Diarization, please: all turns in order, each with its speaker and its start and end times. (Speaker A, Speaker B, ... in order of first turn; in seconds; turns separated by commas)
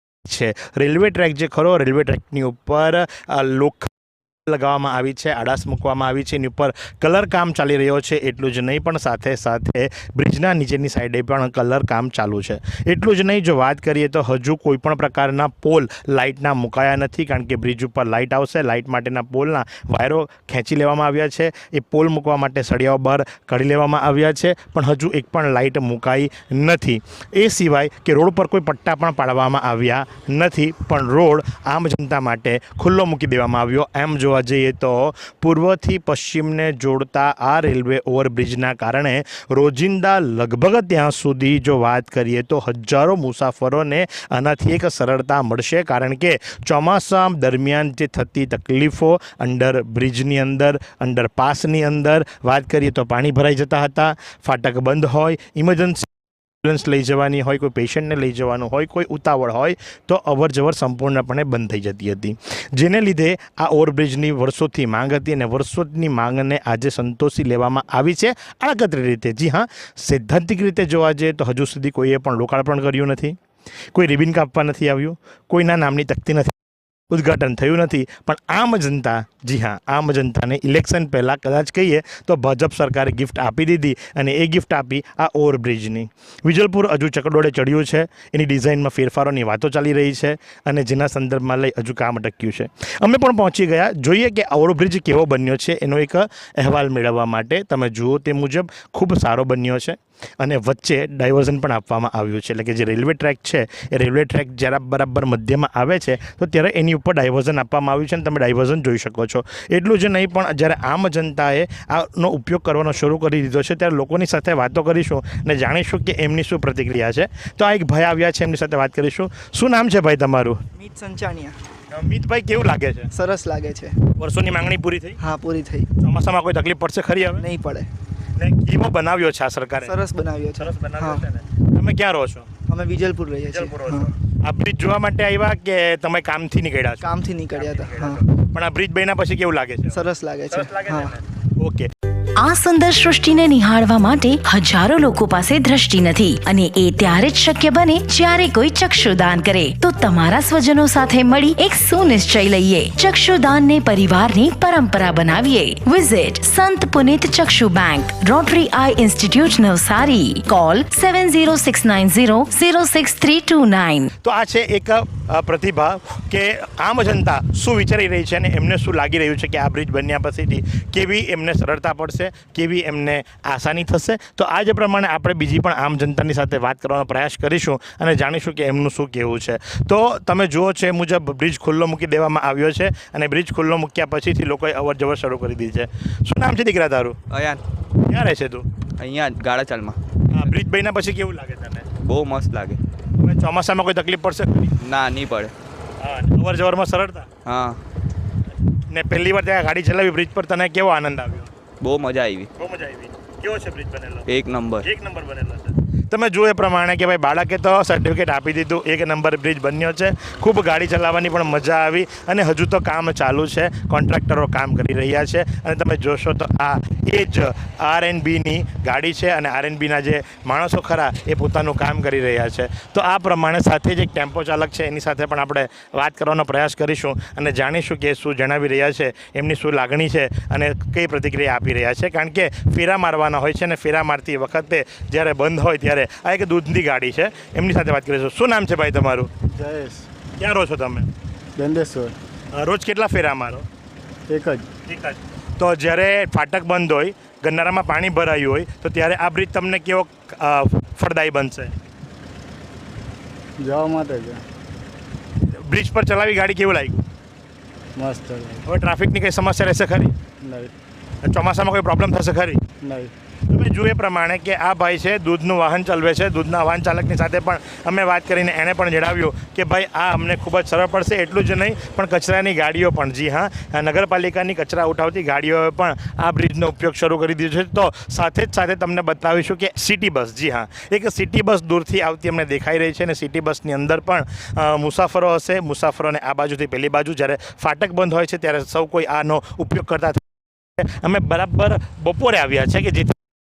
Speaker A: 0.2-3.9, Speaker A: 4.5-56.1, Speaker A: 56.6-73.3, Speaker A: 73.9-76.5, Speaker A: 77.1-120.6, Speaker B: 120.8-121.6, Speaker A: 121.9-123.1, Speaker B: 123.1-124.0, Speaker A: 124.2-125.2, Speaker B: 125.2-125.9, Speaker A: 126.0-127.5, Speaker B: 127.4-127.9, Speaker A: 128.4-129.9, Speaker B: 129.8-131.2, Speaker A: 130.6-132.5, Speaker B: 132.7-134.1, Speaker A: 133.4-141.9, Speaker B: 137.0-138.2, Speaker B: 139.9-141.1, Speaker C: 142.4-164.1, Speaker A: 164.2-187.2, Speaker D: 187.3-187.6, Speaker A: 188.1-188.7, Speaker D: 189.0-190.0, Speaker A: 190.3-191.9, Speaker D: 192.0-192.8, Speaker A: 193.2-194.8, Speaker D: 194.8-195.5, Speaker A: 196.0-197.3, Speaker D: 197.4-197.8, Speaker A: 198.9-201.5, Speaker D: 201.8-202.5, Speaker A: 202.6-204.3, Speaker D: 204.3-204.9, Speaker A: 204.8-239.3, Speaker E: 239.5-240.1, Speaker A: 240.4-241.1, Speaker E: 241.6-242.2, Speaker A: 242.5-243.6, Speaker E: 244.3-244.7, Speaker A: 244.9-251.8, Speaker E: 253.6-254.4, Speaker A: 255.4-257.0, Speaker E: 257.9-258.6, Speaker A: 258.6-260.1, Speaker E: 260.4-260.7, Speaker A: 261.2-262.6, Speaker E: 262.8-263.1, Speaker A: 263.5-290.2, Speaker A: 290.8-293.2